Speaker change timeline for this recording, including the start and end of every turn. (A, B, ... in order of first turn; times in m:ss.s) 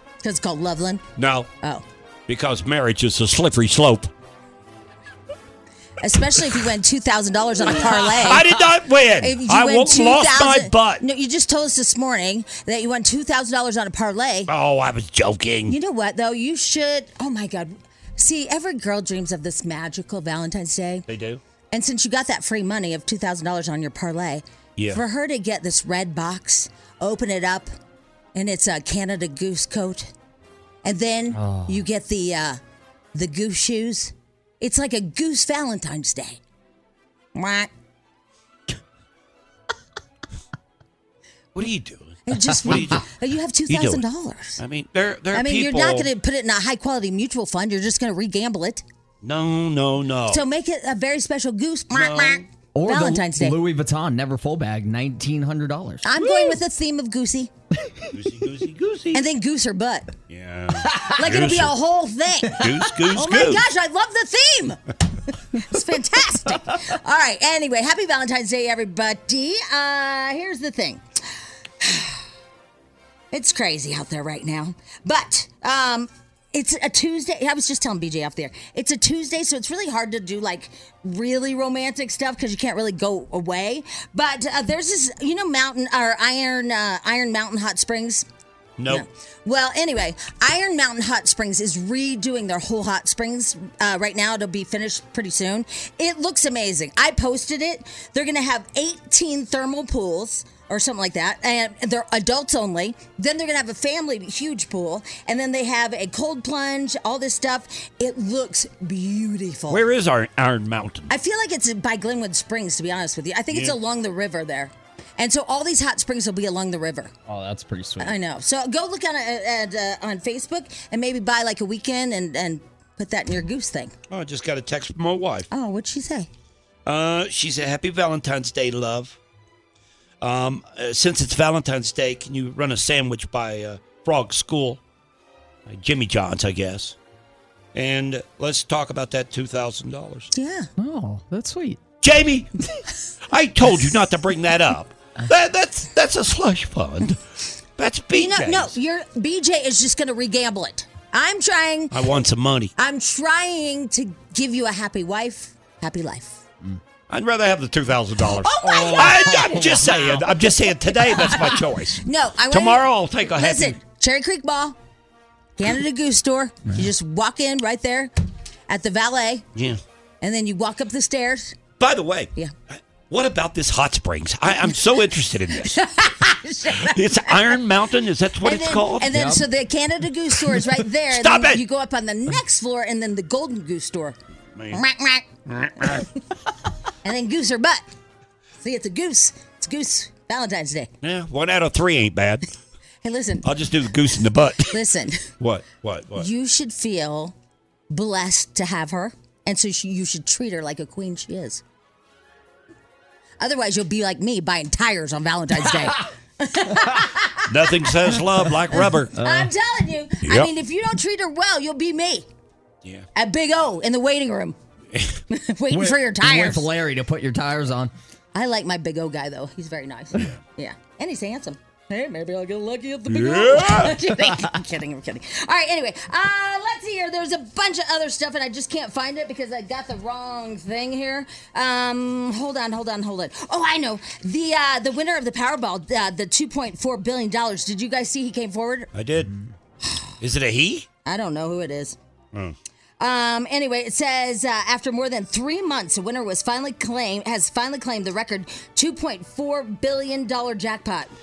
0:00.2-0:01.0 A
0:01.2-0:01.5 B
0:02.3-0:04.1 B
0:06.0-0:08.6 A
0:07.8-0:11.0 B
0:09.2-0:14.5 A
0:14.5-0:15.7 B
0:15.7-0:21.0 A
0:21.1-0:21.4 B
0:21.7-0:27.7 A
0:24.8-0:25.0 B
0:28.3-0:30.1 A
0:30.8-0:32.6 A
0:31.3-0:31.8 C
0:33.1-0:36.4 A
0:37.3-0:37.7 A
0:41.5-0:43.0 B
0:42.3-0:44.6 A
0:43.7-0:44.0 B
0:44.6-0:46.1 B
0:45.3-0:48.8 A
0:49.2-0:50.4 B
0:50.3-0:53.6 A
0:51.9-0:52.4 B
0:52.7-0:56.1 C
0:56.0-0:57.5 A
0:58.1-0:59.2 B
0:59.1-1:00.1 A
1:00.3-1:01.7 B
1:00.9-1:01.1 C
1:01.1-1:11.0 A
1:02.5-1:03.6 B
1:11.8-1:12.2 A
1:13.3-1:28.2 A
1:28.8-1:29.0 B
1:28.9-1:49.8 A
1:49.7-1:51.1 B
1:51.1-1:57.1 A
1:53.5-1:53.8 B
1:57.3-1:58.2 C
1:58.0-2:03.9 A
2:04.1-2:05.5 B
2:05.5-2:06.3 A
2:06.8-2:09.2 B
2:10.2-2:14.8 B
2:15.7-2:17.0 B
2:17.7-2:20.3 B
2:20.3-2:20.7 A
2:20.8-2:21.8 C
2:22.0-2:22.5 B
2:23.3-2:27.2 B
2:27.8-2:28.7 B
2:28.1-2:31.9 A
2:31.9-2:32.7 B
2:32.8-2:36.4 A
2:37.1-2:43.8 B
2:38.4-2:40.2 A
2:38.6-2:39.9 C
2:40.8-2:44.8 A
2:45.6-2:48.1 A
2:48.7-2:49.4 A
2:49.5-2:49.8 B
2:50.2-2:51.5 A
2:51.8-2:55.8 B
2:55.6-2:57.6 A
2:56.7-2:59.1 B
2:58.4-3:04.2 A
2:59.1-2:59.4 C
3:01.1-3:01.6 B
3:04.6-3:04.8 B
3:04.7-3:05.2 A
3:05.5-3:06.0 B
3:05.8-3:06.1 A
3:07.0-3:07.8 A
3:08.6-3:10.9 A
3:11.0-3:12.5 B
3:13.0-3:13.5 A
3:13.4-3:14.8 B
3:14.7-3:15.3 A
3:15.4-3:16.3 B
3:16.2-3:17.3 A
3:17.9-3:21.6 A
3:23.4-3:27.9 A
3:27.5-3:29.1 B
3:29.2-3:29.5 C
3:29.2-3:32.2 A
3:30.2-3:30.5 B
3:33.1-3:34.5 A
3:35.3-3:36.7 A
3:35.7-3:37.9 C
3:38.3-3:58.9 A
3:43.1-3:44.0 B
3:58.9-3:59.3 B
4:00.2-4:00.9 B
4:01.0-4:02.0 A
4:03.0-4:11.1 A